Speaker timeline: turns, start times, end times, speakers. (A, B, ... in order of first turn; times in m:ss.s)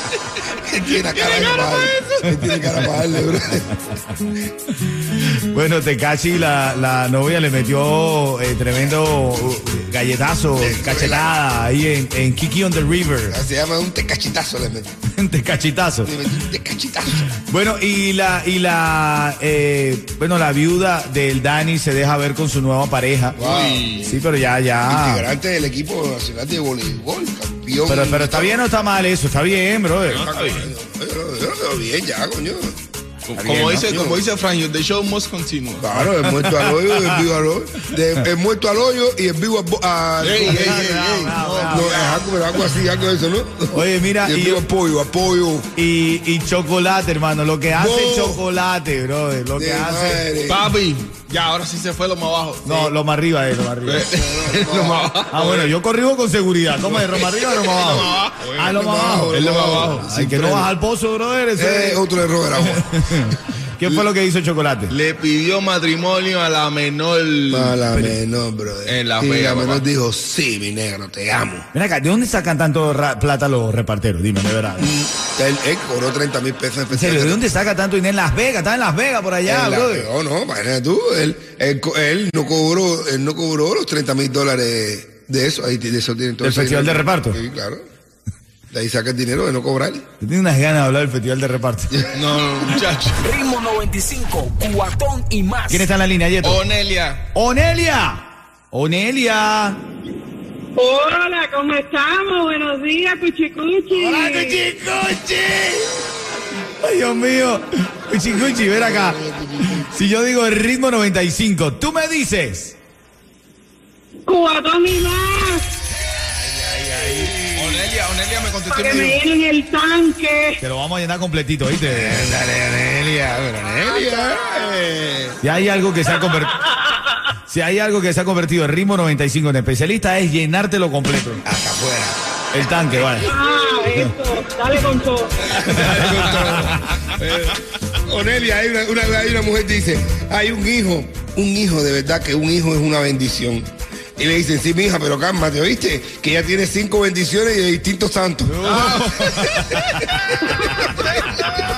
0:00.5-0:03.7 A
0:01.1-0:02.2 B
0:02.5-0:03.0 C
0:05.0-0:13.4 C
0:10.6-0:11.3 A
0:13.3-0:15.0 A
0:15.1-0:16.1 C
0:16.0-0:17.3 A
0:17.3-0:23.4 C
0:23.4-0:24.0 A
0:23.4-0:24.2 B
0:24.0-0:25.3 C
0:24.9-0:28.6 A
0:27.9-0:30.2 C
0:30.1-0:32.8 A
0:30.2-0:30.7 B
0:33.3-0:35.9 B
0:33.4-0:33.9 C
0:33.5-0:34.2 A
0:35.8-0:45.7 A
0:36.0-0:37.2 C
0:40.2-0:42.3 B
0:40.4-0:41.9 C
0:43.7-0:44.6 C
0:45.8-0:50.2 C
0:47.8-0:48.4 A
0:49.6-0:50.7 A
0:50.5-0:52.9 B
0:52.6-0:54.1 C
0:53.8-0:55.7 B
0:54.1-0:55.2 A
0:55.3-1:04.9 C
0:56.9-1:00.7 B
0:58.6-1:00.0 A
1:01.6-1:04.0 A
1:04.9-1:08.1 B
1:07.5-1:11.7 A
1:08.9-1:09.8 B
1:11.7-1:14.9 C
1:14.8-1:17.4 A
1:16.9-1:20.1 C
1:19.5-1:27.8 A
1:26.4-1:27.4 C
1:28.7-1:30.0 A
1:30.2-1:32.1 C
1:32.2-1:33.2 B
1:33.2-1:35.9 D
1:35.7-1:36.6 C
1:36.4-1:37.2 B
1:37.3-1:39.8 C
1:40.8-1:44.6 E
1:43.9-1:46.1 C
1:46.8-1:52.8 C
1:48.3-1:49.9 A
1:54.3-1:55.6 E
1:56.3-1:57.9 A
1:57.4-1:59.2 B
1:58.7-2:00.6 E
2:00.6-2:02.3 C
2:01.8-2:05.4 A
2:05.4-2:06.6 C
2:07.4-2:11.4 C
2:11.5-2:12.2 A
2:12.5-2:13.3 C
2:13.3-2:15.4 E
2:15.4-2:29.4 A
2:15.6-2:16.7 C
2:28.5-2:31.1 C
2:28.6-2:29.2 B